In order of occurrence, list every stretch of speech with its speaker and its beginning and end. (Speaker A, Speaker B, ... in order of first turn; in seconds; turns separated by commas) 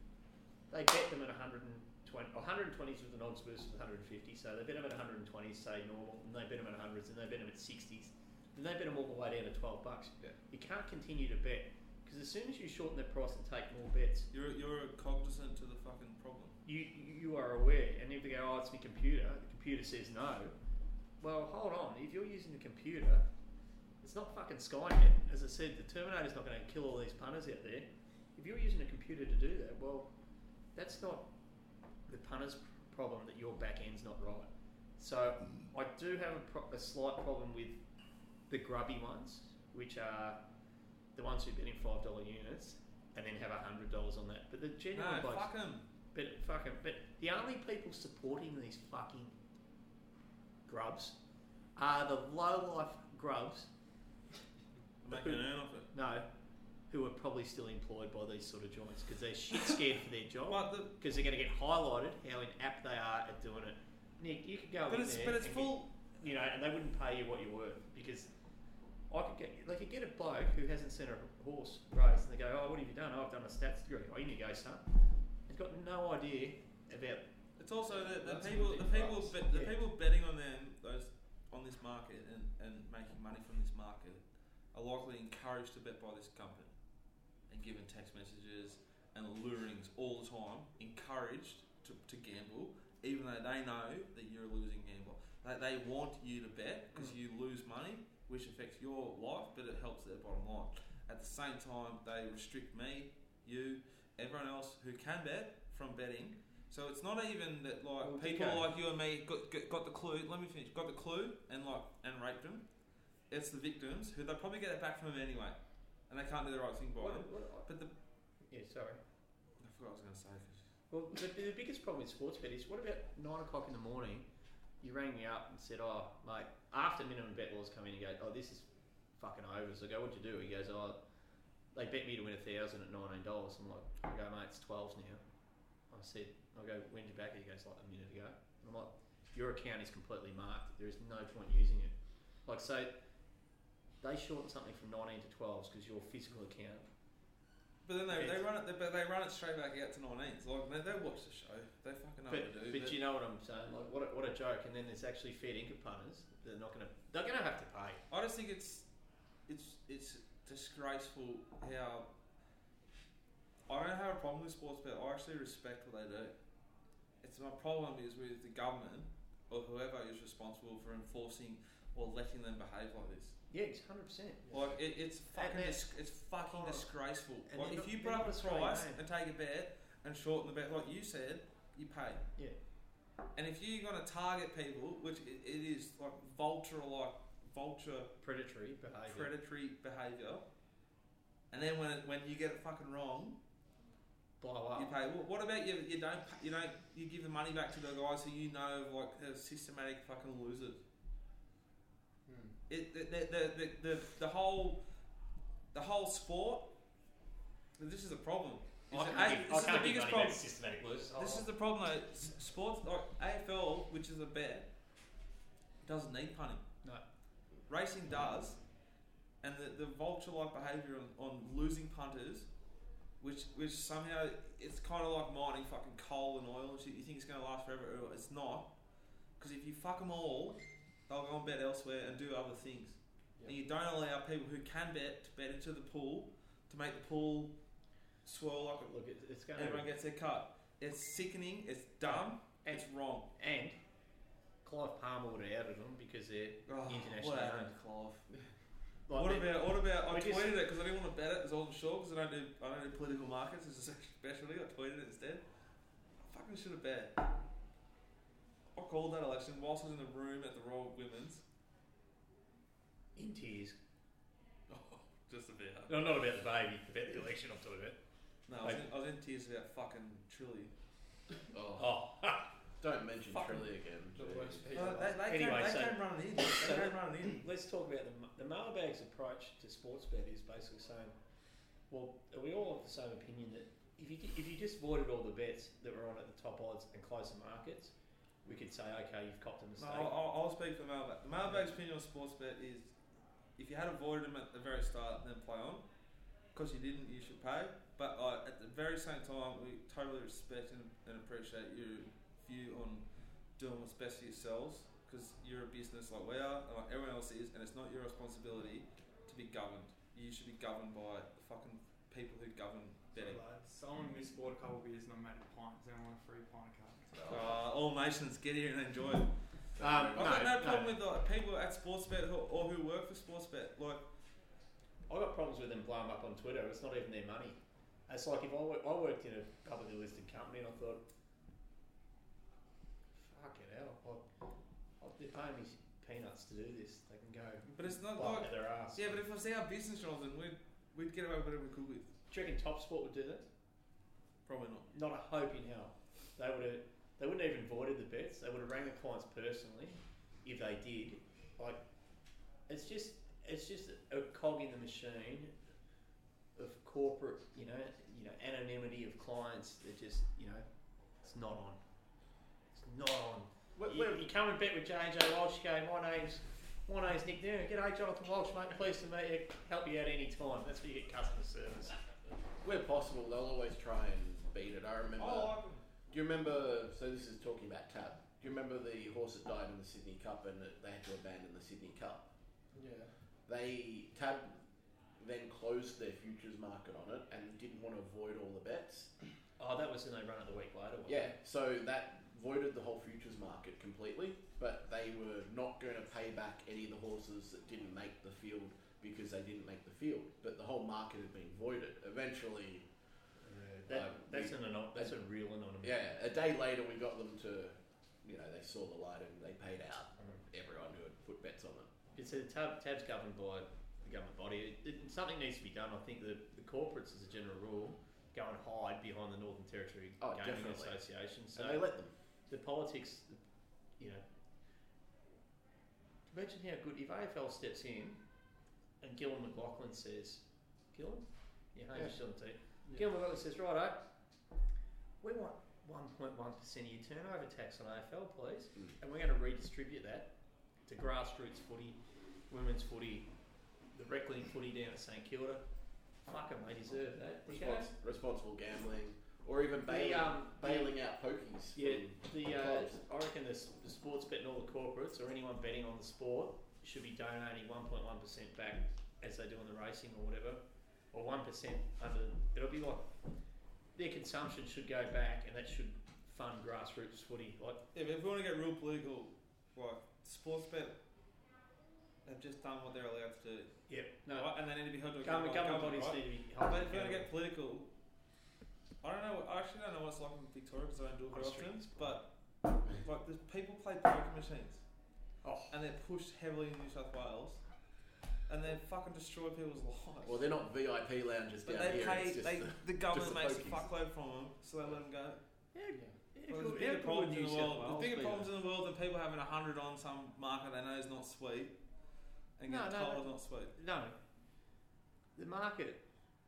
Speaker A: 0.7-14.3, Speaker B: 14.3-16.6, Speaker A: 16.6-20.5, Speaker A: 21.2-23.2, Speaker A: 24.0-30.1, Speaker A: 30.8-31.3, Speaker A: 32.1-37.8, Speaker A: 38.5-40.4, Speaker A: 41.1-45.5, Speaker B: 44.9-45.9, Speaker A: 46.1-49.4, Speaker A: 50.7-51.2, Speaker A: 51.8-53.7, Speaker B: 55.0-55.9, Speaker A: 55.1-55.4, Speaker A: 55.9-56.3, Speaker A: 56.9-68.3, Speaker B: 60.5-61.0, Speaker B: 64.9-65.9, Speaker A: 69.1-74.8, Speaker A: 75.5-77.3, Speaker B: 77.6-84.2, Speaker C: 78.0-79.3, Speaker A: 79.5-79.8, Speaker B: 84.7-86.7, Speaker B: 87.5-112.7, Speaker A: 108.0-108.7, Speaker B: 113.3-115.6, Speaker B: 116.1-117.9, Speaker A: 117.0-117.7, Speaker A: 118.5-119.0, Speaker B: 119.6-120.6, Speaker A: 120.9-124.3, Speaker A: 124.8-131.0, Speaker A: 131.7-135.2, Speaker A: 135.9-141.9, Speaker A: 142.5-142.9, Speaker A: 144.0-146.9, Speaker B: 147.9-153.0, Speaker A: 148.1-148.4, Speaker A: 152.3-158.0, Speaker B: 158.1-158.9, Speaker B: 159.5-162.1, Speaker B: 163.7-166.4, Speaker B: 167.2-173.4, Speaker A: 173.5-174.6, Speaker C: 174.5-174.8, Speaker B: 174.5-182.2, Speaker A: 175.3-175.9, Speaker A: 176.4-176.9, Speaker A: 177.5-179.0, Speaker B: 183.4-188.1, Speaker A: 188.2-189.3, Speaker B: 189.1-190.4, Speaker B: 191.5-193.4, Speaker A: 194.4-194.9, Speaker B: 194.8-200.8, Speaker C: 202.3-202.5, Speaker B: 202.7-204.8, Speaker B: 205.7-206.7, Speaker B: 207.8-210.4, Speaker A: 208.9-211.5, Speaker B: 211.2-214.7, Speaker B: 215.8-216.6, Speaker B: 217.7-218.6, Speaker B: 219.4-222.5, Speaker B: 223.2-228.7, Speaker B: 229.4-237.5, Speaker B: 238.2-238.9, Speaker A: 238.8-239.9, Speaker B: 239.6-243.3, Speaker A: 242.1-243.8, Speaker A: 244.6-247.7, Speaker B: 246.7-248.3, Speaker A: 249.1-250.5, Speaker B: 249.1-255.4, Speaker B: 256.2-257.3, Speaker B: 258.8-261.4, Speaker A: 263.2-263.8, Speaker B: 264.7-266.0, Speaker A: 265.9-268.0, Speaker B: 268.5-270.7, Speaker D: 271.5-272.0, Speaker A: 271.8-272.5, Speaker D: 272.8-274.7, Speaker C: 274.1-275.3, Speaker B: 274.7-277.4, Speaker A: 275.3-281.1, Speaker A: 281.9-290.1, Speaker B: 289.8-292.9, Speaker B: 293.6-295.9, Speaker B: 296.5-303.1, Speaker B: 303.6-313.4, Speaker E: 313.2-317.4, Speaker B: 317.3-319.3, Speaker D: 319.8-320.2, Speaker A: 319.8-321.0, Speaker B: 320.0-324.1, Speaker A: 325.1-331.0, Speaker A: 333.1-334.2, Speaker A: 335.0-339.2, Speaker B: 337.7-342.1, Speaker A: 342.3-343.5, Speaker B: 344.5-344.9, Speaker A: 344.9-351.8, Speaker A: 352.7-355.5, Speaker A: 356.6-360.7, Speaker A: 361.2-361.8, Speaker A: 362.7-372.0, Speaker D: 363.8-364.3, Speaker D: 372.6-375.6, Speaker B: 375.2-375.8, Speaker D: 376.1-382.3, Speaker C: 382.7-383.1, Speaker D: 383.5-384.6, Speaker D: 385.2-389.1, Speaker A: 389.6-391.3, Speaker D: 391.1-402.9, Speaker D: 403.5-405.1, Speaker A: 403.8-406.0, Speaker D: 405.8-411.9, Speaker A: 412.2-421.8, Speaker D: 420.2-421.0, Speaker D: 421.6-422.1, Speaker A: 422.5-423.4, Speaker A: 424.0-424.2, Speaker A: 426.3-428.2, Speaker A: 429.0-434.1, Speaker A: 435.2-440.3, Speaker A: 440.9-442.0, Speaker A: 442.5-443.3, Speaker A: 443.9-445.6, Speaker A: 446.2-447.9, Speaker D: 447.5-453.0, Speaker A: 449.9-450.9, Speaker A: 451.8-463.1, Speaker A: 464.0-467.8, Speaker B: 467.9-471.0, Speaker B: 472.2-473.7, Speaker A: 473.9-474.5, Speaker B: 474.3-477.9, Speaker A: 475.2-477.3, Speaker B: 479.0-482.3, Speaker A: 481.3-482.2, Speaker B: 482.9-484.8, Speaker A: 485.4-485.8, Speaker B: 485.7-487.6, Speaker B: 488.5-490.5, Speaker D: 490.3-493.9, Speaker B: 491.6-495.4, Speaker A: 495.8-498.5, Speaker B: 496.5-501.7, Speaker B: 502.6-503.7, Speaker A: 502.7-504.2, Speaker A: 505.4-506.0